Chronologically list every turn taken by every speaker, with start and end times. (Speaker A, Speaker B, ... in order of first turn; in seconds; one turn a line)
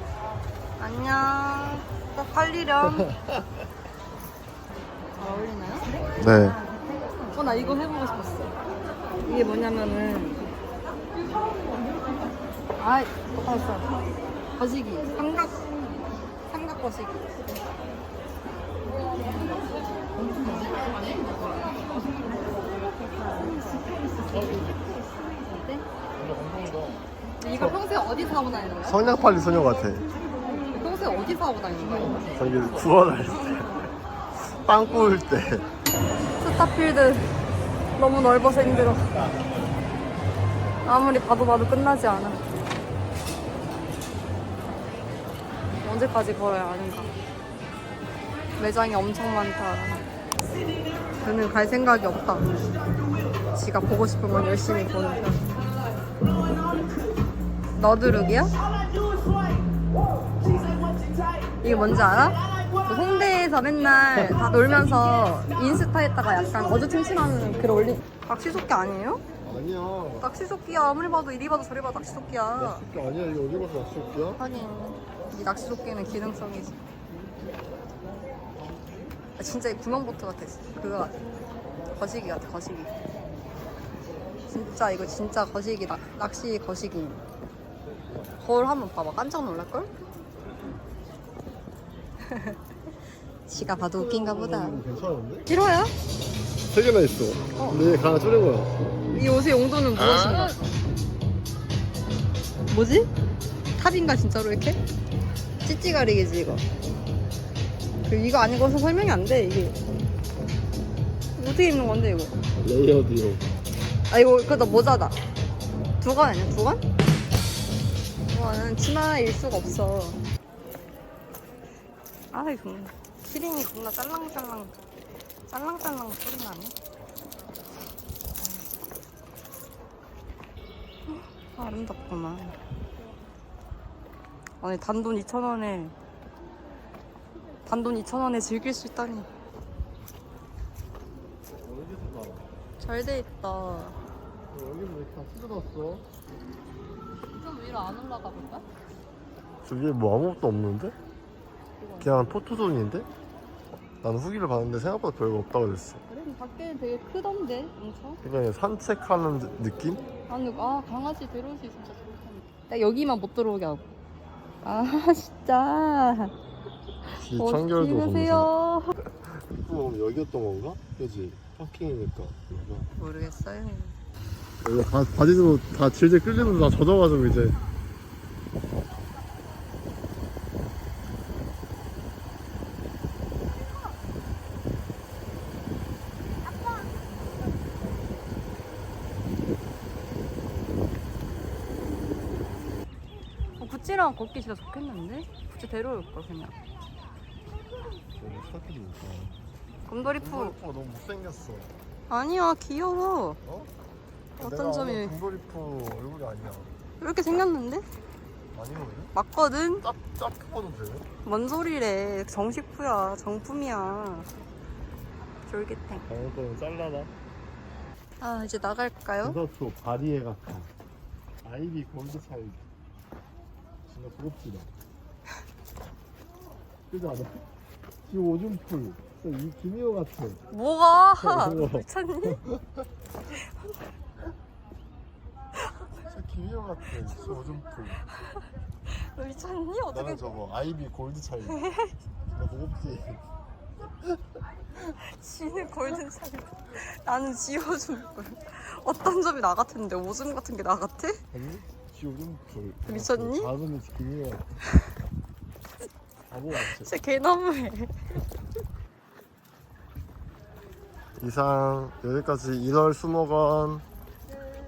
Speaker A: 0.8-3.1
Speaker B: 2.8-3.5
Speaker A: 5.2-5.9
Speaker B: 6.2-6.6
Speaker A: 7.3-8.6
Speaker A: 9.2-10.4
Speaker A: 12.8-13.9
Speaker A: 14.6-15.7
Speaker A: 16.5-17.4
Speaker A: 19.2-24.4
Speaker B: 24.3-25.0
Speaker A: 25.3-25.8
Speaker B: 26.1-27.0
Speaker A: 27.4-29.0
Speaker B: 28.9-30.1
Speaker A: 30.6-32.4
Speaker B: 32.3-33.7
Speaker B: 34.4-35.6
Speaker A: 36.4-37.3
Speaker A: 38.0-39.1
Speaker B: 38.6-39.4
Speaker A: 40.8-42.4
Speaker A: 45.8-47.1
Speaker A: 48.6-50.0
Speaker A: 51.2-52.5
Speaker A: 53.5-55.5
Speaker A: 57.8-58.5
Speaker A: 61.6-69.2
Speaker B: 69.4-70.3
Speaker A: 70.2-72.8
Speaker B: 72.5-74.4
Speaker A: 74.4-76.8
Speaker B: 78.6-79.1
Speaker A: 79.3-81.2
Speaker A: 81.9-83.0
Speaker A: 84.5-87.2
Speaker A: 88.4-89.9
Speaker A: 92.2-92.5
Speaker A: 93.5-94.8
Speaker B: 93.5-95.5
Speaker A: 95.5-95.9
Speaker B: 96.7-99.0
Speaker A: 99.1-100.6
Speaker A: 102.7-103.1
Speaker A: 103.8-104.8
Speaker A: 105.6-106.6
Speaker A: 108.0-109.8
Speaker A: 111.3-112.3
Speaker B: 112.5-113.5
Speaker A: 114.1-115.2
Speaker A: 116.0-116.8
Speaker A: 118.3-120.2
Speaker A: 122.3-124.8
Speaker A: 125.5-126.7
Speaker A: 131.1-132.6
Speaker A: 134.6-135.9
Speaker A: 137.7-139.3
Speaker B: 141.6-142.5
Speaker A: 142.8-144.0
Speaker B: 144.5-146.0
Speaker A: 147.3-148.6
Speaker B: 149.6-150.9
Speaker A: 151.8-152.3
Speaker B: 152.0-153.1
Speaker B: 154.0-156.0
Speaker A: 156.1-158.2
Speaker B: 158.2-160.0
Speaker A: 160.3-163.9
Speaker A: 164.6-166.3
Speaker A: 167.1-168.9
Speaker B: 167.2-168.5
Speaker B: 169.1-172.9
Speaker A: 173.0-173.9
Speaker B: 174.6-177.6
Speaker A: 193.6-196.5
Speaker B: 198.2-199.4
Speaker A: 199.9-200.6
Speaker B: 200.0-201.7
Speaker A: 202.1-203.4
Speaker B: 203.4-203.7
Speaker A: 204.4-205.2
Speaker B: 204.4-206.7
Speaker A: 207.0-207.8
Speaker B: 208.5-209.1
Speaker A: 209.1-209.8
Speaker B: 209.8-211.1
Speaker A: 211.2-214.3
Speaker A: 215.5-216.1
Speaker B: 216.1-217.1
Speaker A: 218.2-219.4
Speaker B: 219.2-220.7
Speaker B: 221.4-222.6
Speaker B: 223.9-224.7
Speaker B: 226.9-227.4
Speaker B: 228.1-230.4
Speaker A: 230.5-232.4
Speaker B: 231.2-232.8
Speaker B: 236.1-238.0
Speaker A: 238.9-240.3
Speaker B: 239.9-241.6
Speaker A: 241.5-241.9
Speaker B: 242.3-243.2
Speaker A: 244.8-251.2
Speaker B: 251.3-254.4
Speaker A: 252.9-253.5
Speaker B: 256.3-256.9
Speaker A: 256.6-258.0
Speaker B: 261.2-263.8